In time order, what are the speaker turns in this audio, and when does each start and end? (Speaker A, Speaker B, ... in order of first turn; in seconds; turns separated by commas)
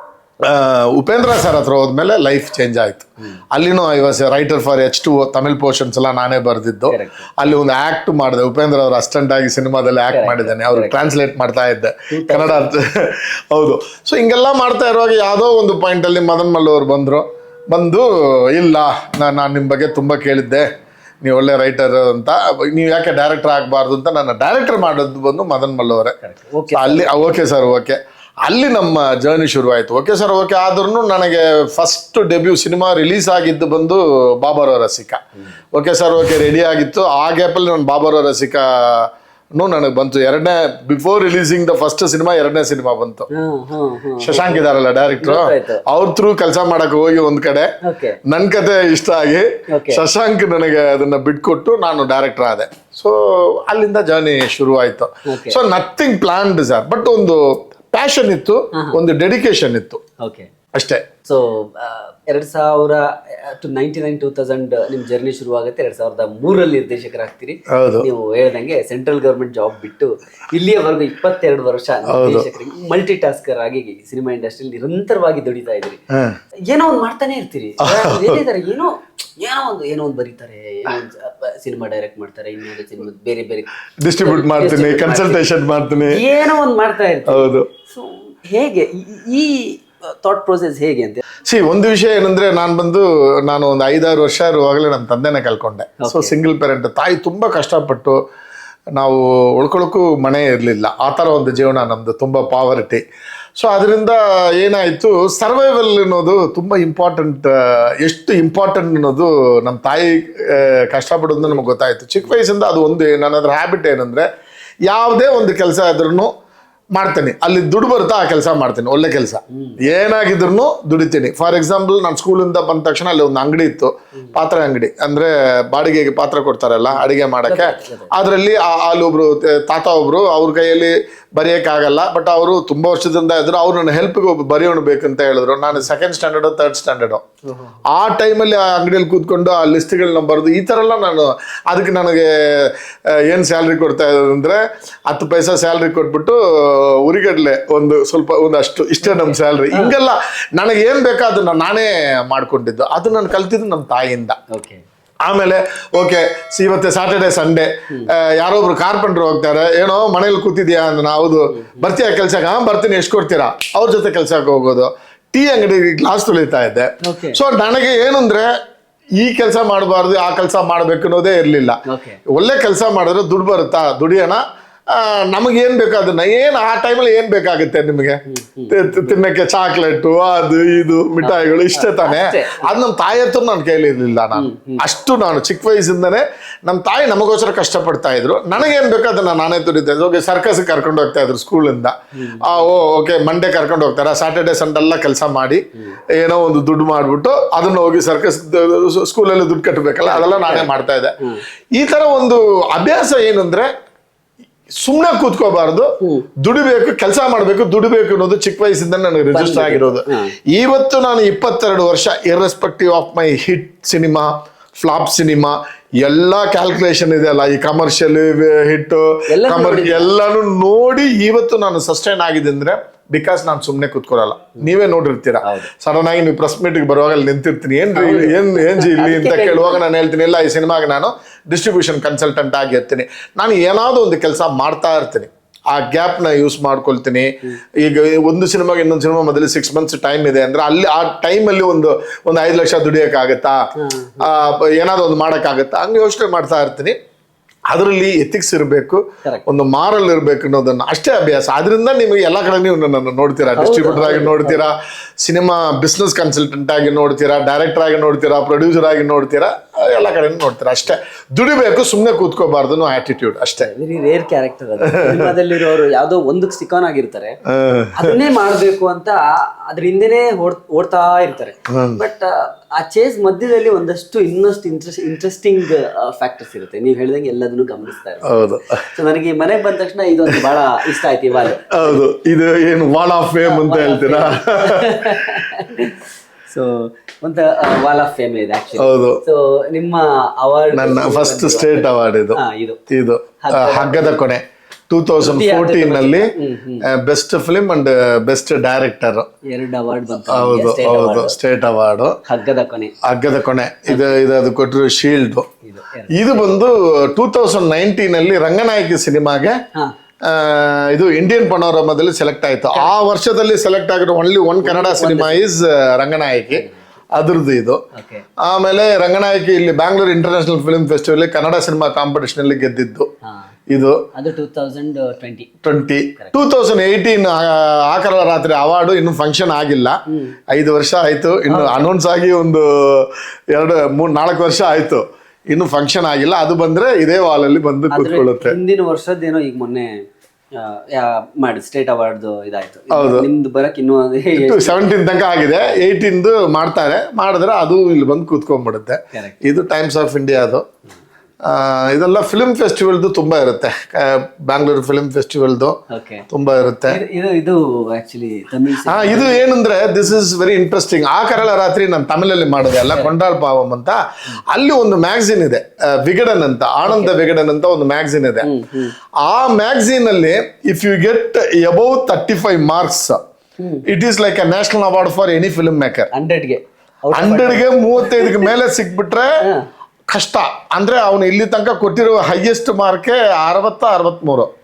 Speaker A: 0.4-20.7, Speaker B: 6.9-7.3, Speaker B: 10.1-11.0, Speaker B: 12.1-12.8, Speaker A: 21.2-26.2, Speaker B: 26.2-27.3, Speaker A: 26.7-35.2, Speaker A: 35.7-43.3, Speaker B: 43.3-45.8, Speaker A: 44.2-47.7, Speaker B: 47.8-48.2, Speaker A: 48.3-60.0, Speaker B: 49.7-50.0, Speaker B: 55.3-55.6, Speaker B: 60.2-60.5, Speaker A: 60.8-61.0, Speaker B: 61.2-76.0, Speaker A: 67.7-68.1, Speaker A: 72.1-72.5, Speaker B: 76.7-85.4, Speaker A: 77.8-78.4, Speaker A: 84.0-86.2, Speaker B: 86.1-91.2, Speaker A: 87.3-87.7, Speaker A: 91.5-98.2, Speaker B: 96.0-96.3, Speaker A: 99.0-103.0, Speaker A: 103.6-114.3, Speaker A: 114.8-116.3, Speaker A: 117.0-137.2, Speaker B: 119.5-119.8, Speaker B: 126.9-128.1, Speaker B: 137.4-137.8, Speaker A: 137.9-154.4, Speaker B: 149.1-149.9, Speaker B: 154.5-154.8, Speaker A: 155.2-168.5, Speaker B: 167.0-167.4, Speaker A: 169.2-201.2, Speaker B: 171.9-172.2, Speaker B: 178.3-179.1, Speaker B: 181.2-182.7, Speaker B: 184.4-184.8, Speaker B: 192.2-192.7, Speaker B: 200.1-200.7, Speaker A: 201.7-203.7, Speaker A: 204.8-243.6, Speaker B: 206.0-206.3, Speaker B: 209.3-210.3, Speaker B: 219.3-220.1, Speaker B: 225.4-225.7, Speaker B: 227.9-229.8, Speaker B: 243.8-244.2, Speaker A: 244.2-247.0, Speaker A: 247.7-263.7, Speaker B: 253.6-254.6, Speaker B: 263.6-267.4, Speaker A: 264.8-265.4, Speaker A: 267.5-268.2, Speaker B: 268.0-282.0, Speaker A: 271.7-272.0, Speaker A: 278.2-278.8, Speaker A: 281.7-285.2, Speaker B: 283.5-292.8, Speaker A: 288.8-289.2, Speaker A: 290.7-296.3, Speaker B: 293.4-294.2, Speaker B: 295.2-296.9, Speaker A: 296.8-299.3, Speaker B: 299.5-301.4, Speaker A: 300.3-302.2, Speaker B: 302.3-302.9, Speaker A: 303.0-305.5, Speaker B: 303.9-304.1, Speaker B: 305.6-306.7, Speaker A: 306.1-309.5, Speaker A: 310.2-317.8, Speaker B: 314.6-315.4, Speaker B: 316.5-316.8, Speaker B: 317.9-318.3, Speaker A: 318.4-323.1, Speaker A: 323.7-324.0, Speaker B: 324.1-325.6, Speaker A: 325.6-330.0, Speaker B: 330.1-330.4, Speaker A: 330.5-338.6, Speaker B: 331.5-331.9, Speaker B: 337.9-340.0, Speaker B: 340.5-344.8, Speaker A: 342.9-343.3, Speaker A: 344.4-350.6, Speaker A: 351.4-357.0, Speaker B: 355.9-356.3, Speaker B: 356.9-359.4, Speaker A: 358.9-368.5, Speaker B: 366.9-367.2, Speaker B: 368.4-368.9, Speaker A: 369.2-373.2, Speaker B: 373.6-373.9, Speaker A: 373.9-376.1, Speaker B: 376.1-378.5, Speaker A: 377.1-379.3, Speaker A: 380.1-384.5